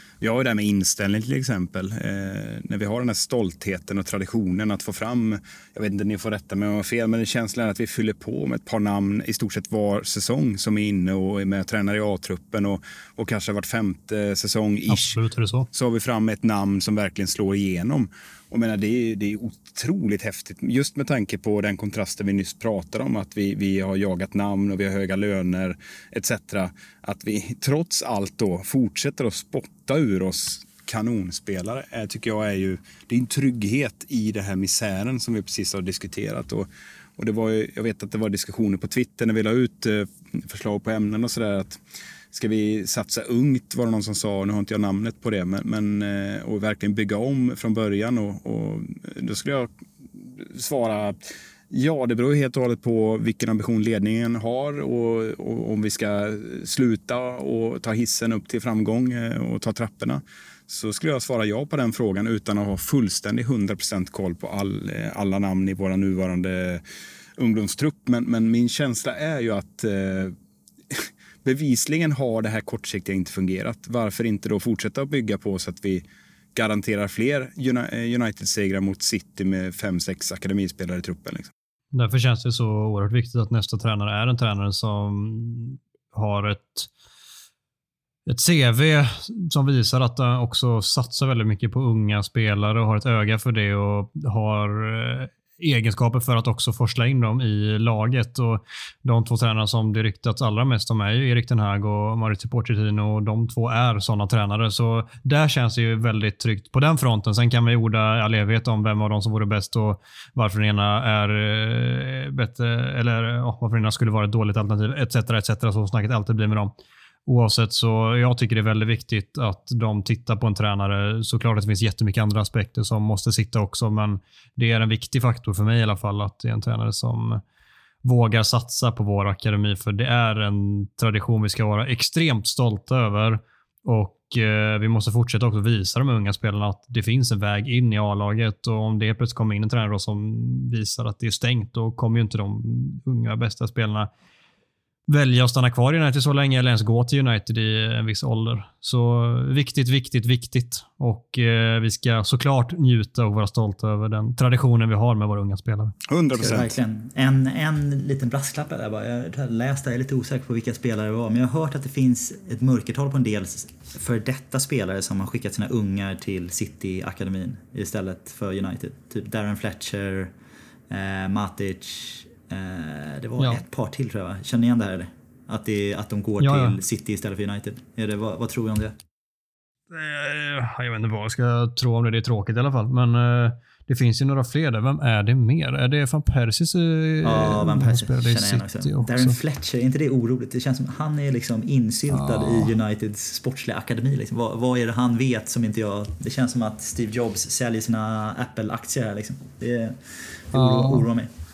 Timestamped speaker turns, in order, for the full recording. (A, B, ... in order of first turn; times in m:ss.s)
0:00.2-0:15.2 A
0:14.9-0:15.7 B
0:15.7-0:41.8 A
0:42.3-1:06.8 A
1:07.4-1:10.4 A
1:10.9-1:16.0 A
1:16.6-1:21.5 A
1:21.9-1:26.9 B
1:28.3-1:56.7 B
1:57.3-2:07.4 B
2:08.0-2:24.1 B
2:25.1-2:36.0 B
2:36.0-2:36.7 A
2:36.4-2:50.3 C
2:50.9-2:59.0 C
2:56.4-2:56.8 B
2:59.9-3:09.4 B
3:07.2-3:21.3 C
3:12.1-3:12.8 B
3:20.5-3:21.1 B